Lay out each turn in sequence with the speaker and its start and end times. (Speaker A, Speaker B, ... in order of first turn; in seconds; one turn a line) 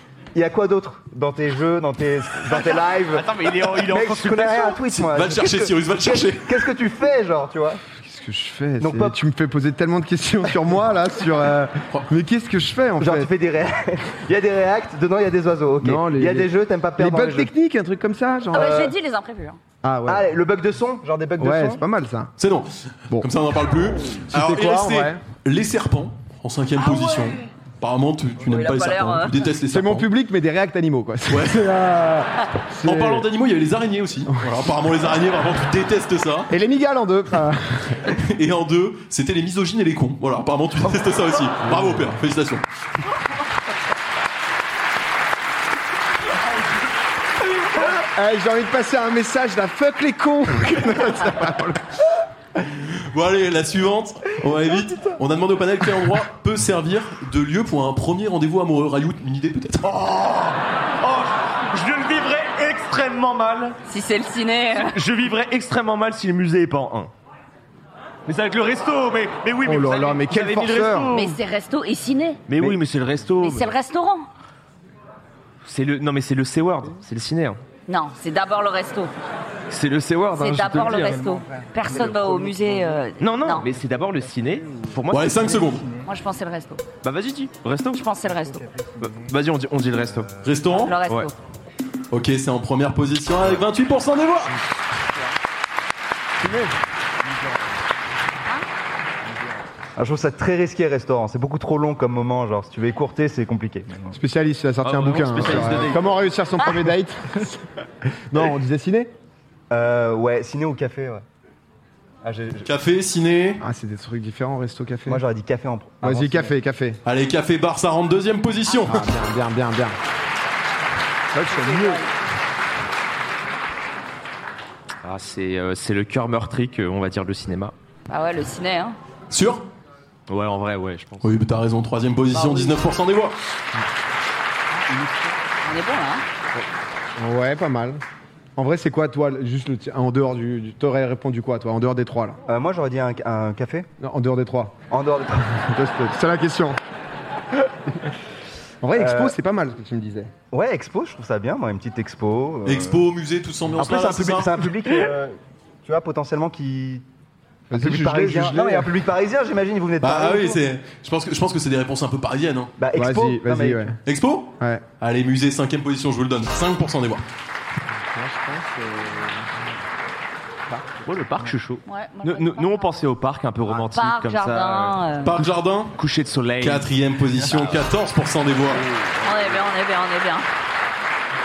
Speaker A: 0.3-7.8
Speaker B: 2.5-4.8
Speaker C: 4.9-6.7
Speaker D: 8.0-13.3
Speaker A: 8.8-9.2
Speaker A: 13.0-17.5
Speaker D: 15.8-18.9
Speaker A: 18.5-18.9
Speaker E: 18.5-19.6
Speaker D: 19.8-20.3
Speaker A: 20.1-21.8
Speaker D: 21.4-22.3
Speaker C: 22.4-30.1
Speaker D: 24.3-25.2
Speaker E: 26.8-27.4
Speaker E: 28.4-29.5
Speaker D: 29.7-33.3
Speaker C: 31.3-31.7
Speaker C: 32.8-36.5
Speaker D: 34.3-34.7
Speaker D: 36.5-38.2
Speaker C: 38.1-42.6
Speaker D: 41.7-42.1
Speaker D: 47.8-52.0
Speaker C: 52.7-59.9
Speaker B: 59.8-63.8
Speaker E: 63.9-65.0
Speaker B: 64.8-67.1
Speaker B: 68.3-71.4
Speaker D: 69.6-71.2
Speaker E: 71.1-72.4
Speaker B: 72.5-73.7
Speaker E: 73.4-74.3
Speaker B: 75.7-77.6
Speaker E: 77.9-79.1
Speaker B: 79.7-81.3
Speaker E: 80.4-83.7
Speaker A: 80.7-83.0
Speaker B: 83.2-85.7
Speaker C: 85.1-85.9
Speaker A: 85.5-86.1
Speaker E: 86.1-86.8
Speaker B: 87.0-88.1
Speaker E: 87.9-88.6
Speaker A: 88.2-89.3
Speaker B: 89.0-90.3
Speaker A: 90.2-90.6
Speaker C: 90.4-91.0
Speaker E: 90.7-91.3
Speaker B: 91.1-91.3
Speaker C: 92.1-94.6
Speaker B: 96.4-96.7
Speaker A: 100.0-104.2
Speaker D: 104.1-109.1
Speaker B: 104.8-106.0
Speaker A: 109.7-111.2
Speaker A: 112.2-112.7
Speaker C: 112.6-113.6
Speaker D: 113.6-115.2
Speaker A: 115.1-116.6
Speaker D: 116.0-117.0
Speaker C: 117.0-119.1
Speaker D: 118.9-120.0
Speaker D: 121.3-122.0
Speaker E: 121.4-122.2
Speaker B: 125.0-127.7
Speaker E: 128.1-129.0
Speaker C: 129.3-129.7
Speaker B: 130.3-131.3
Speaker C: 131.2-133.3
Speaker B: 132.3-132.8
Speaker E: 135.6-136.2
Speaker D: 137.2-138.0
Speaker D: 138.6-142.4
Speaker A: 142.5-143.9
Speaker D: 144.0-144.8
Speaker A: 144.9-145.6
Speaker D: 145.6-146.8
Speaker D: 148.8-150.3
Speaker A: 148.9-149.3
Speaker A: 150.5-153.1
Speaker C: 152.7-154.7
Speaker A: 153.8-157.1
Speaker D: 157.7-158.9
Speaker A: 157.7-160.6
Speaker C: 160.0-162.7
Speaker A: 162.8-163.8
Speaker D: 162.9-164.0
Speaker C: 164.1-167.2
Speaker D: 164.6-164.8
Speaker D: 167.9-169.7
Speaker B: 171.0-175.4
Speaker E: 171.9-172.9
Speaker E: 173.9-175.3
Speaker C: 175.2-176.0
Speaker B: 175.9-176.9
Speaker C: 176.6-178.9
Speaker E: 179.2-180.5